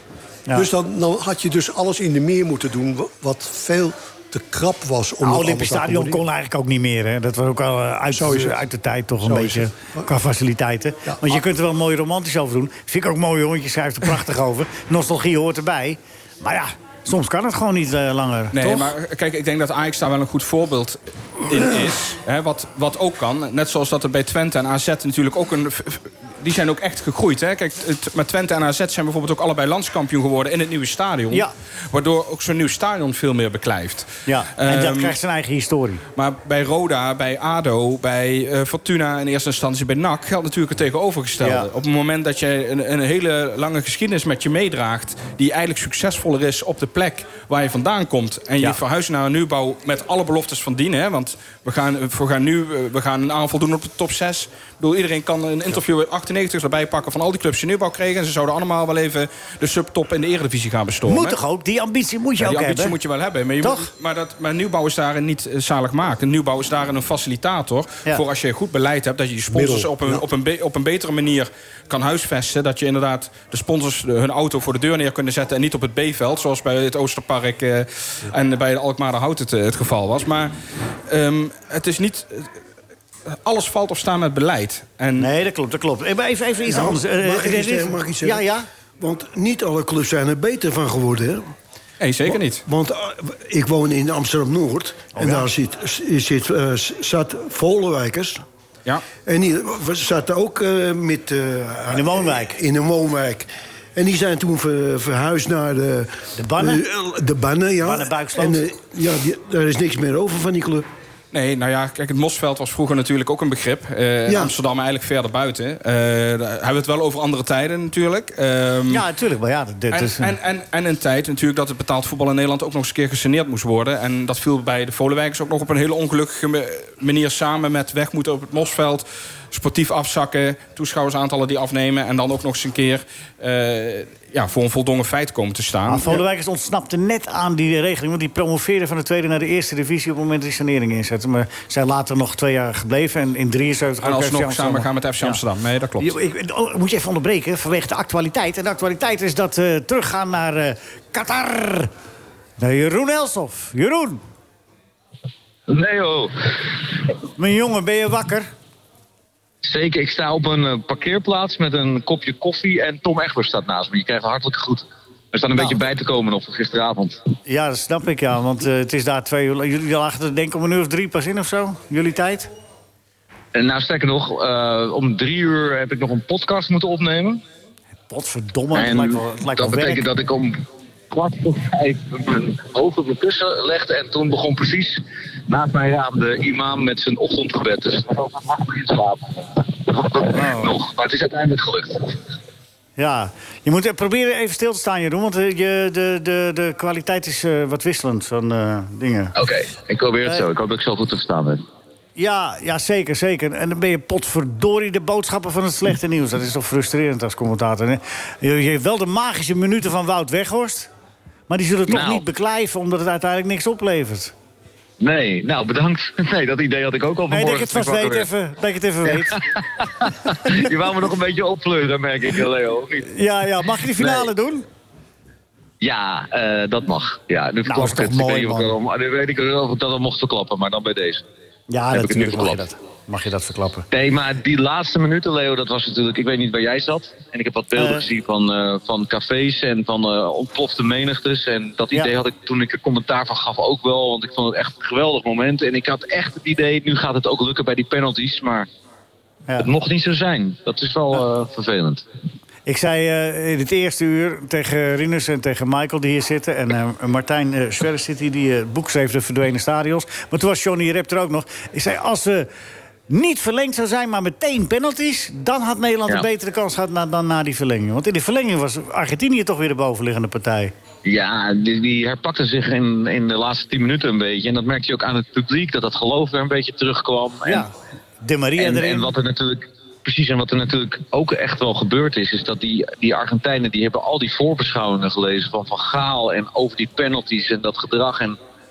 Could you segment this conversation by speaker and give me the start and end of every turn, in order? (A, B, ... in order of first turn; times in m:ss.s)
0:00.5-0:06.2 A
0:05.2-0:18.9 B
0:08.1-0:08.6 A
0:09.2-0:10.1 A
0:11.1-0:11.3 A
0:18.5-0:35.2 C
0:34.3-0:36.0 B
0:36.2-1:01.4 C
0:41.4-0:41.7 B
1:01.1-1:03.0 B
1:02.4-1:20.5 C
1:03.6-1:03.9 B
1:09.5-1:10.2 A
1:21.1-1:22.5 C
1:23.3-1:25.3 C
1:25.2-1:28.7 B
1:26.7-1:28.4 D
1:29.0-1:31.5 D
1:32.0-1:32.6 C
1:32.3-1:38.4 D
1:35.2-1:35.5 B
1:39.2-1:50.9 D
1:41.9-1:42.6 B
1:46.4-1:46.8 B
1:47.8-1:48.6 B
1:51.3-1:59.0 C
1:54.3-1:54.6 D
1:58.9-2:00.4 B
1:59.9-2:16.2 C
2:15.9-2:25.4 B
2:24.0-2:26.2 C
2:26.0-2:31.9 B
2:32.6-2:34.2 B
2:35.7-2:36.4 E
2:37.4-2:38.5 B
2:39.6-2:47.2 E
2:47.5-2:52.5 B
2:53.5-2:57.4 E
2:58.1-3:00.1 B
2:58.7-3:12.2 E
3:10.3-3:10.8 B
3:13.0-3:19.4 B
3:19.4-3:21.6 E
3:22.2-3:30.9 B
3:31.5-3:34.3 B
3:31.9-3:32.2 E
3:35.0-3:38.3 E
3:37.3-3:39.4 B
3:39.1-3:43.1 E
3:43.1-3:44.7 B
3:44.0-3:44.3 E
3:45.8-3:51.2 E
3:47.6-3:48.8 B
3:51.7-3:53.9 B
3:51.9-3:52.6 E
3:53.9-4:08.7 E
3:57.7-3:58.1 B
4:09.6-4:12.0 E
4:12.7-4:22.5 B
4:23.1-4:30.7 B
4:31.0-4:37.7 E
4:37.4-4:37.7 B
4:38.2-4:39.2 B
4:38.6-4:48.4 E